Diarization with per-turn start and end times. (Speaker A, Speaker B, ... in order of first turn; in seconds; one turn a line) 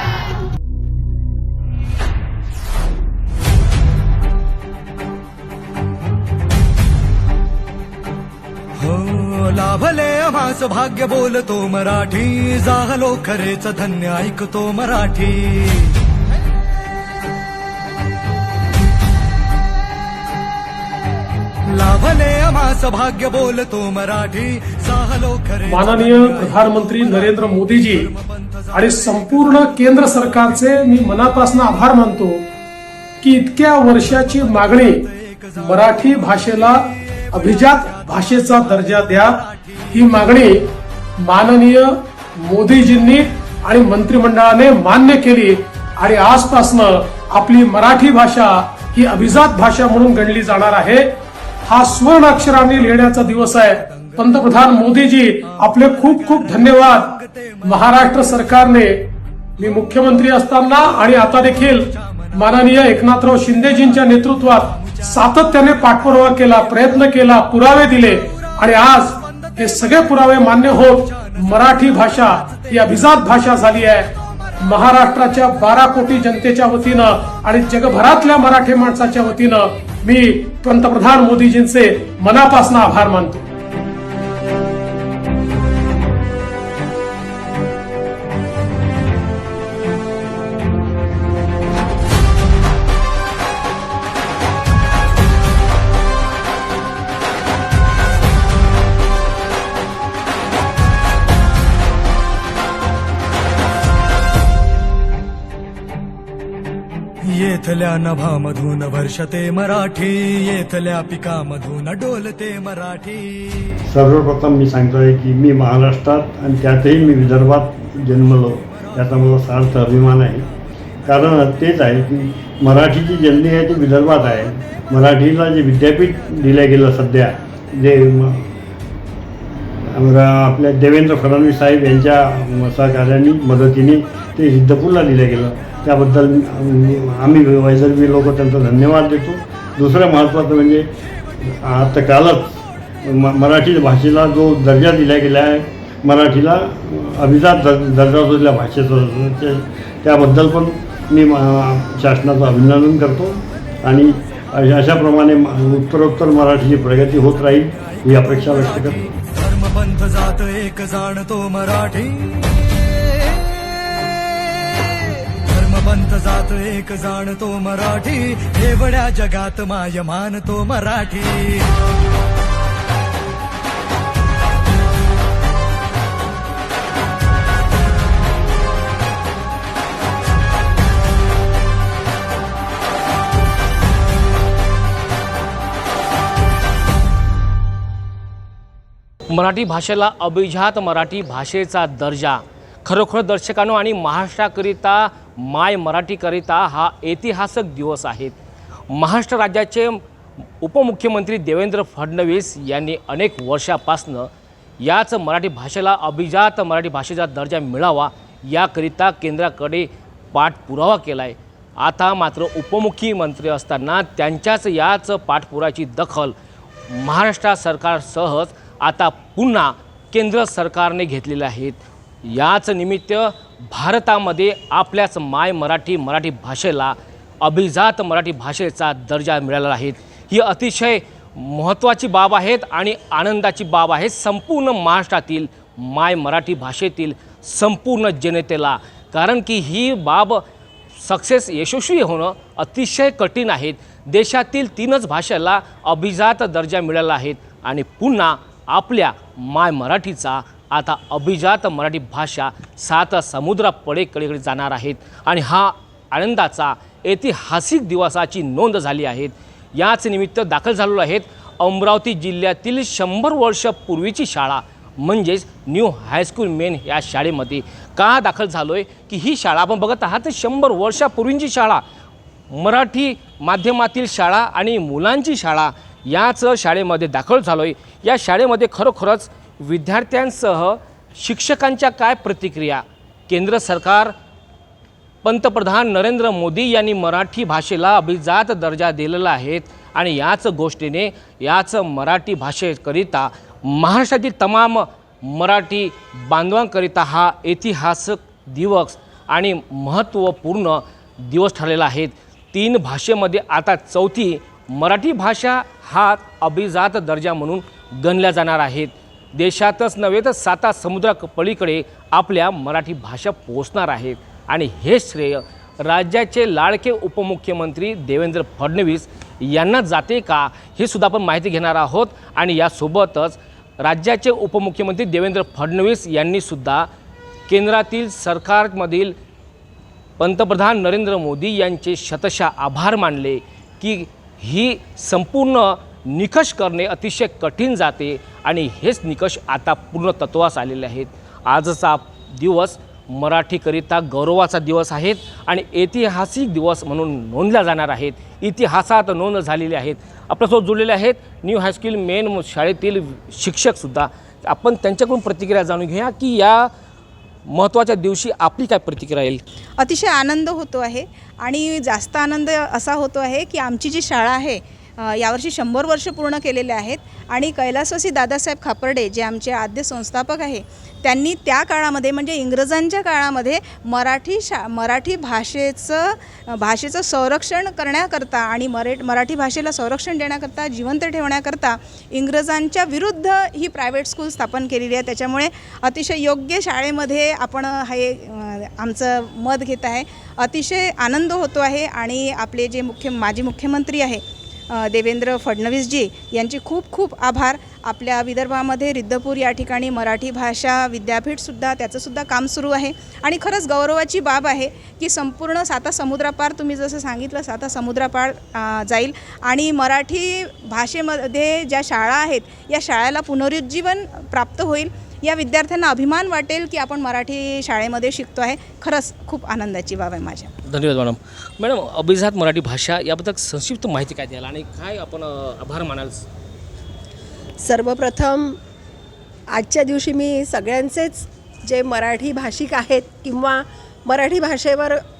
Speaker A: 8.8-15.9
Speaker A: 21.7-30.9
Speaker B: 25.7-28.1
Speaker B: 28.7-32.4
Speaker B: 33.2-35.0
Speaker A: 33.9-40.3
Speaker B: 35.6-40.6
Speaker B: 41.2-41.9
Speaker B: 42.4-51.1
Speaker B: 51.7-59.0
Speaker A: 52.4-58.6
Speaker B: 59.6-74.1
Speaker A: 61.3-67.1
Speaker A: 68.4-73.5
Speaker A: 74.4-74.8
Speaker B: 74.6-83.4
Speaker A: 107.4-113.8
Speaker C: 113.9-120.5
Speaker A: 118.6-119.0
Speaker C: 121.0-128.5
Speaker C: 129.8-140.9
Speaker C: 141.4-142.5
Speaker C: 143.0-159.0
Speaker A: 157.4-164.3
Speaker A: 165.5-171.7
Speaker D: 189.3-198.4
Speaker D: 198.9-200.0
Speaker D: 200.6-216.3
Speaker D: 216.9-240.4
Speaker D: 241.0-271.8
Speaker D: 272.5-284.1
Speaker D: 285.2-326.9
Speaker D: 327.5-329.1
Speaker D: 330.2-356.7
Speaker D: 357.4-359.4
Speaker E: 359.8-420.5
Speaker D: 420.6-426.2
Speaker F: 427.6-428.6
Speaker F: 429.5-435.0